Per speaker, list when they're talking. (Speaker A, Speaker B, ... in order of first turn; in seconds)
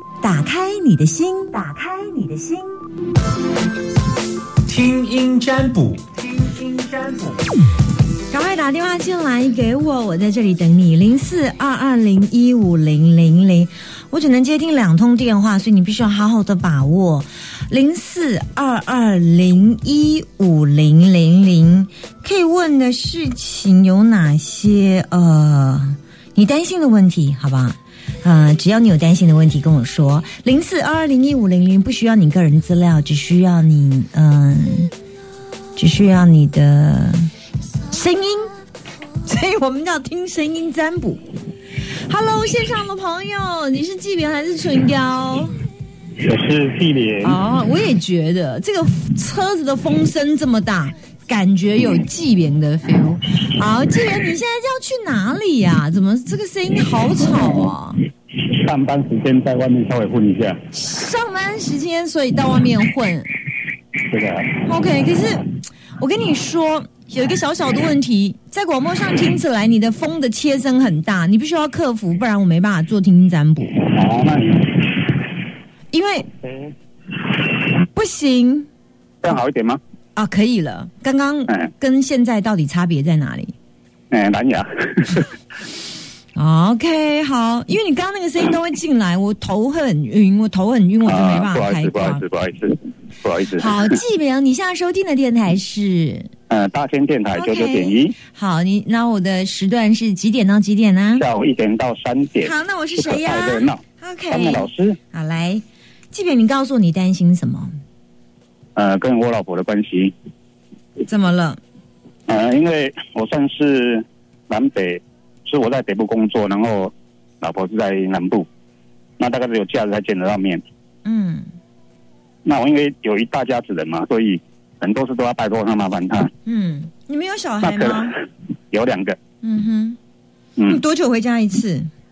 Speaker A: 0.2-2.8, 8.3-34.9, 35.8-37.3, 37.9-38.5, 39.2-41.2, 42.0-45.6, 47.2-58.0, 60.7-63.4, 64.7-73.8, 75.9-76.3, 77.9-78.7, 80.2-83.5, 86.3-92.2, 93.5-96.3, 97.3-101.3, 102.4-107.7, 111.0-111.6, 121.0-121.5, 126.5-128.2, 129.4-130.0, 130.7-131.9
Speaker B: 4.7-7.4
Speaker C: 46.2-47.4, 58.4-60.6, 64.0-64.6, 73.8-75.1, 79.2-79.8, 84.1-85.3, 91.0-94.0, 96.5-98.2, 101.2-105.0, 108.8-110.1, 112.3-118.5, 119.2-120.6, 122.5-126.3, 127.6-128.2, 128.7-129.2